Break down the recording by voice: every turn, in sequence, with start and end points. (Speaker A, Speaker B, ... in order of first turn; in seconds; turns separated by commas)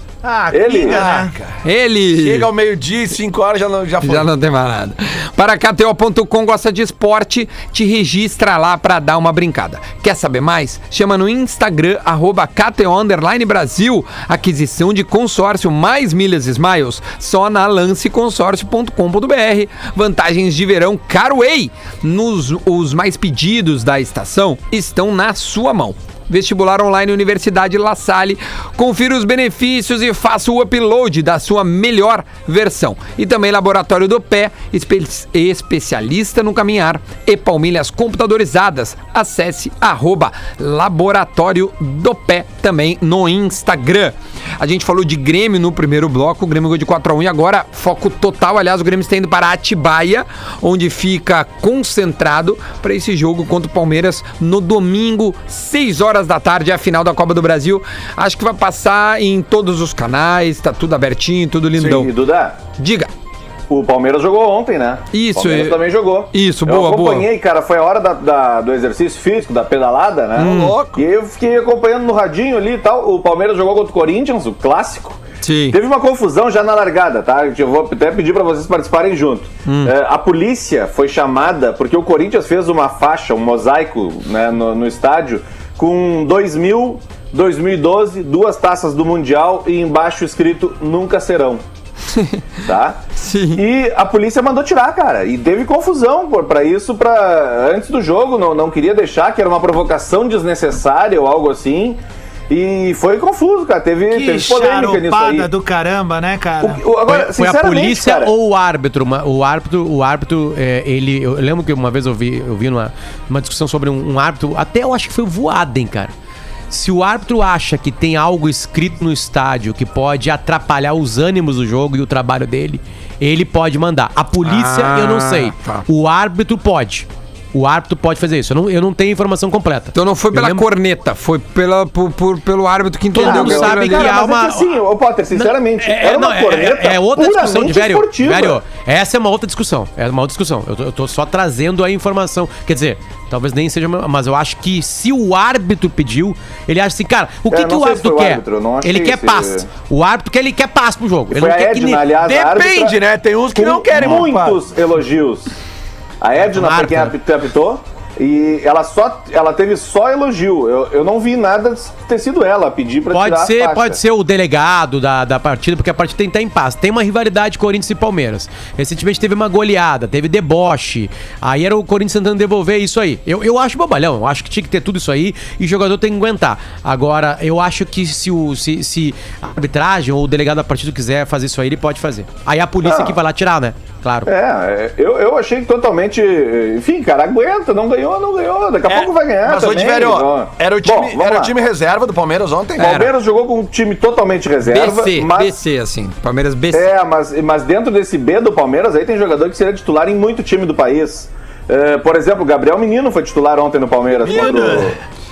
Speaker A: 0.2-1.3, Speaker B: 0.5-1.0, Speaker C: 0.8-1.6, Speaker D: 1.6-2.5, Speaker C: 2.1-4.3, Speaker D: 4.0-62.1, Speaker B: 61.8-62.6, Speaker D: 62.8-63.1, Speaker B: 63.7-91.6, Speaker D: 65.1-67.3, Speaker D: 70.4-70.8, Speaker C: 70.4-71.0, Speaker D: 75.4-75.8, Speaker D: 79.7-79.9, Speaker D: 92.1-92.4, Speaker B: 92.7-93.0, Speaker D: 93.2-93.6, Speaker B: 93.5-105.5, Speaker A: 104.1-106.8, Speaker B: 106.6-108.3, Speaker E: 107.1-116.1, Speaker E: 116.7-130.7, Speaker D: 124.4-125.9, Speaker D: 129.9-134.2, Speaker E: 133.2-134.8, Speaker B: 133.2-138.6, Speaker E: 135.3-152.2, Speaker B: 147.5-149.7, Speaker B: 151.3-153.0, Speaker C: 152.2-154.6, Speaker B: 153.6-155.5, Speaker B: 156.2-164.0, Speaker E: 156.4-157.2, Speaker E: 163.1-184.3, Speaker B: 182.8-183.2, Speaker B: 184.3-191.5, Speaker C: 188.9-192.9, Speaker D: 192.8-193.1, Speaker B: 192.8-195.5, Speaker D: 194.6-196.9, Speaker B: 196.7-205.0, Speaker D: 204.2-204.9